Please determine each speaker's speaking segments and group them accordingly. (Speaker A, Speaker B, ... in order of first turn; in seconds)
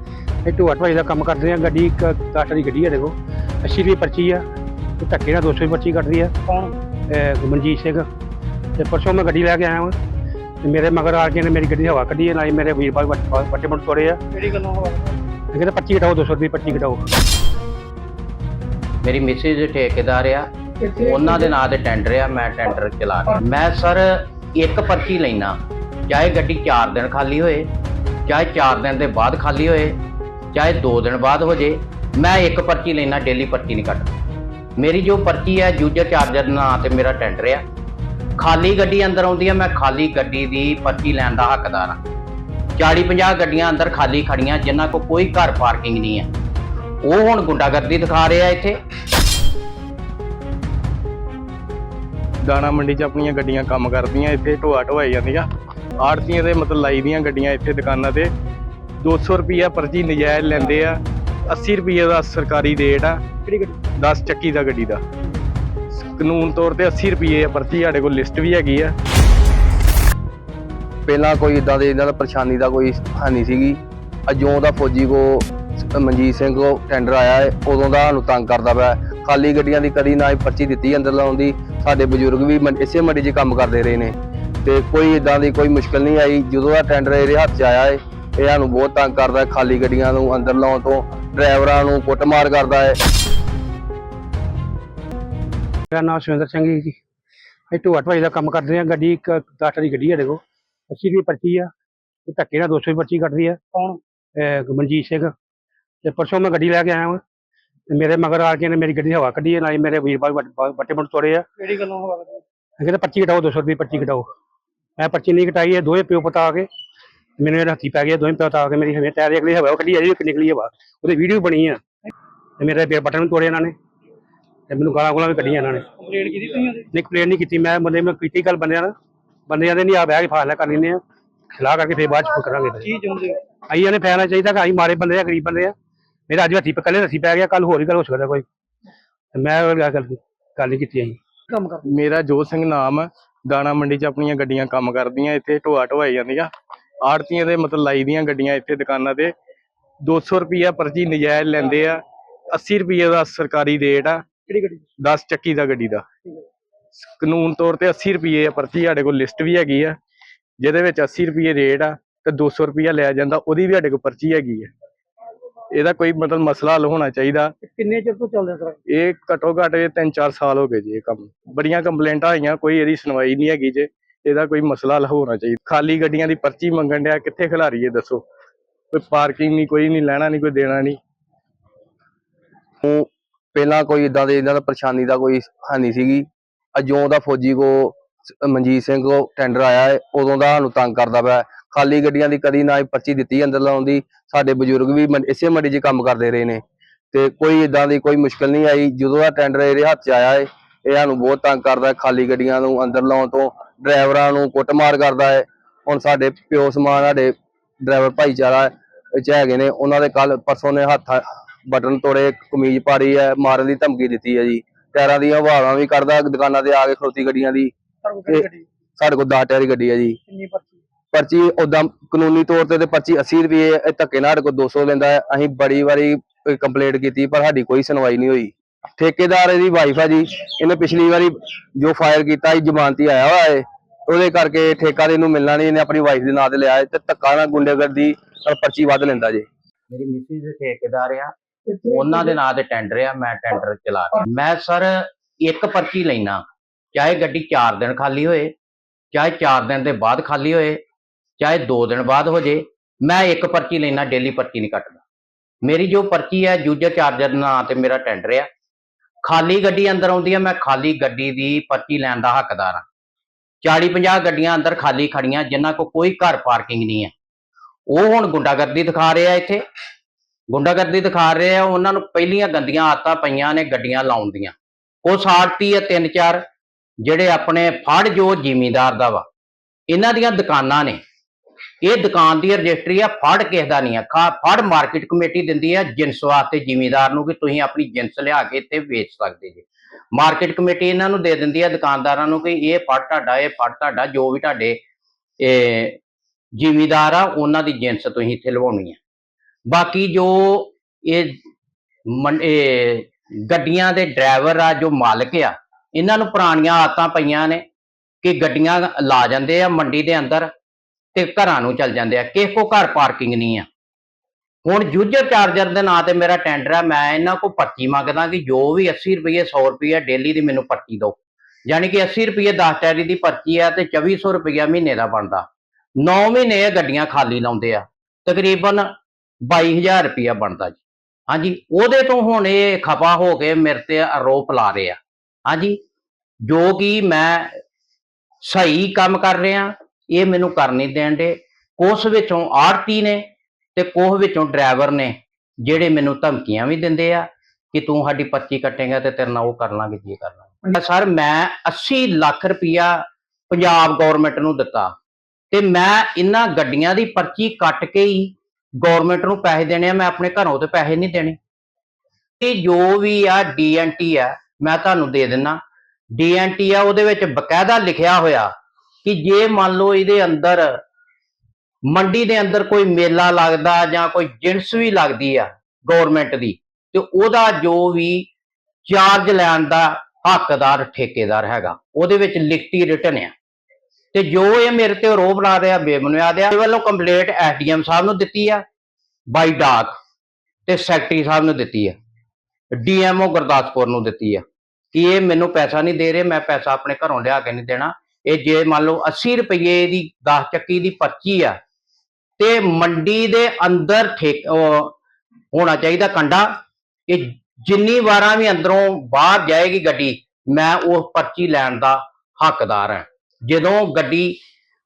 Speaker A: 0.4-4.4, 5.0-6.3, 7.1-8.1, 8.8-9.9, 10.6-14.2, 15.5-17.0, 95.9-97.0, 97.7-101.7, 102.2-103.6, 104.4-105.3, 106.0-107.2, 107.9-111.5, 112.8-114.3, 115.0-116.7, 117.4-121.8, 122.6-123.7, 124.7-125.9, 126.7-128.9, 129.5-131.0, 131.6-132.9, 133.7-135.7, 136.3-138.4, 139.3-141.2
Speaker B: 6.4-6.7, 14.3-15.1, 103.7-104.0, 111.6-112.4, 126.0-126.8, 132.8-133.4, 141.5-141.8, 167.6-168.8, 218.0-218.6, 220.3-220.7
Speaker C: 19.0-25.6, 26.1-27.7, 28.3-30.0, 30.5-34.1, 34.8-37.6, 38.4-42.0, 42.8-46.3, 47.0-48.7, 239.9-246.4, 246.9-248.5, 249.1-250.8, 251.4-255.0, 255.6-258.5, 259.2-262.8, 263.6-267.1, 267.9-269.6, 270.5-276.4, 277.0-279.2, 279.9-281.0, 281.8-294.8, 295.4-296.0, 296.6-299.0, 299.7-301.4, 302.1-307.6, 308.2-310.5, 311.1-313.6, 314.6-325.4, 326.0-328.9, 329.4-335.8, 336.4-337.5, 338.4-343.2, 343.8-354.9, 355.5-361.4, 362.4-365.6, 366.1-368.5, 369.0-370.8, 371.9-378.3, 378.9-383.3, 384.1-388.6, 389.3-389.9, 390.7-391.9, 392.8-401.6, 402.4-404.9, 405.5-414.3
Speaker D: 52.4-55.5, 56.0-58.3, 59.0-65.0, 65.9-68.9, 141.8-146.5, 147.0-149.3, 150.0-152.0, 152.5-156.4, 156.9-159.9, 160.6-164.7, 165.7-167.5, 168.9-178.2, 178.9-181.0
Speaker E: 71.1-93.0, 182.8-217.7, 219.0-220.2, 221.1-239.4